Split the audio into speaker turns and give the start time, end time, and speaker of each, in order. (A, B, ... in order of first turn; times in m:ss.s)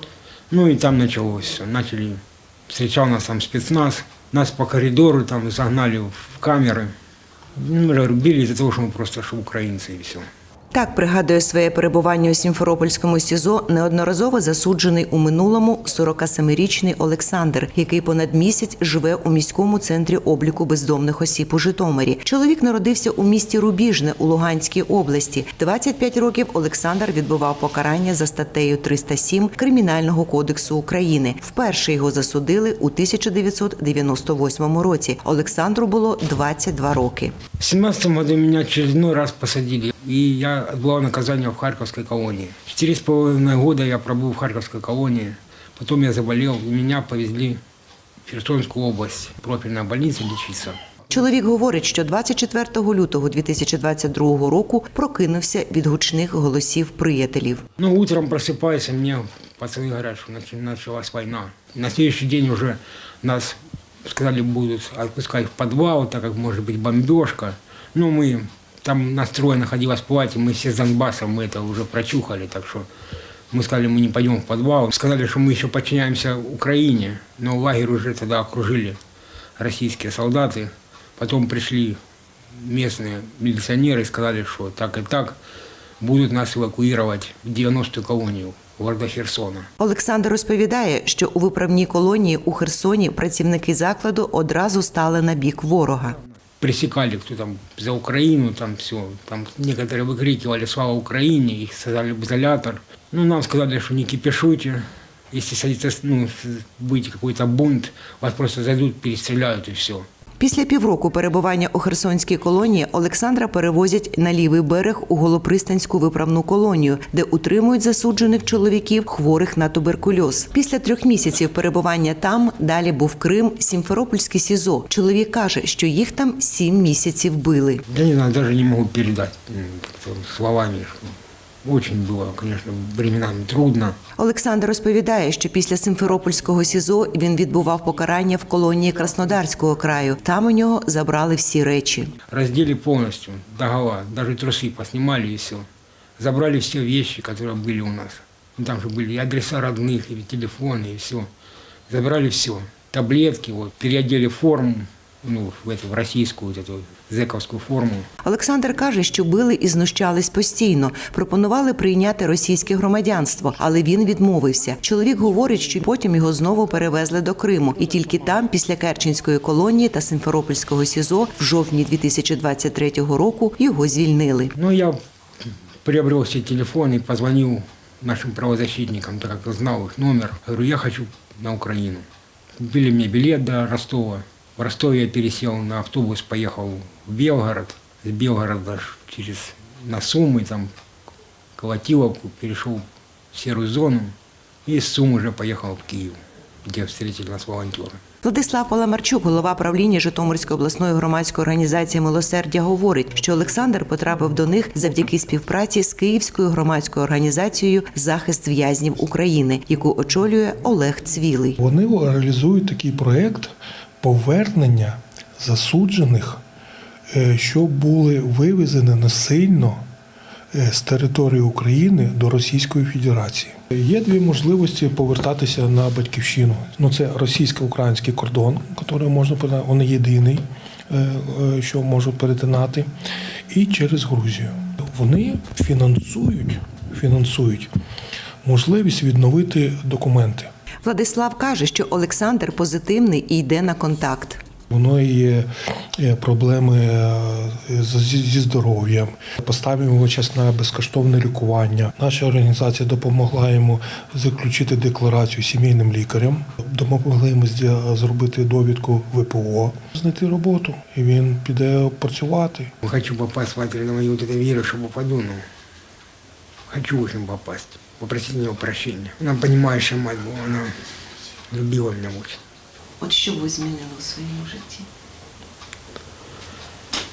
0:00.5-0:06.9 A
0:07.6-0:10.3 A
0:10.7-0:37.4 B
0:37.6-0:47.6 A
0:48.3-0:50.8 A
0:51.1-0:57.6 B
0:57.8-1:12.9 A
1:13.5-1:19.0 A
1:19.6-1:22.0 A
1:22.5-1:25.4 A
1:26.0-1:29.7 A
1:29.8-1:36.2 B
1:36.6-1:50.1 A
1:50.4-2:07.8 B
2:07.9-2:11.1 A
2:11.6-2:14.0 A
2:14.2-2:22.1 B
2:22.3-2:25.7 A
2:26.2-2:31.3 A
2:31.9-2:38.1 A
2:38.2-2:54.5 B
2:54.6-2:55.0 A
2:55.8-3:02.1 A
3:02.6-3:10.7 A
3:11.6-3:14.2 A
3:14.7-3:18.0 A
3:18.2-3:31.6 B
3:31.6-3:36.4 C
3:37.1-3:39.8 C
3:40.5-3:52.9 C
3:53.5-3:57.7 C
3:58.4-4:00.5 C
4:00.8-4:04.4 B
4:04.7-4:22.7 C
4:22.8-4:25.5 A
4:26.7-4:30.8 A
4:31.5-4:32.4 A
4:33.0-4:34.9 B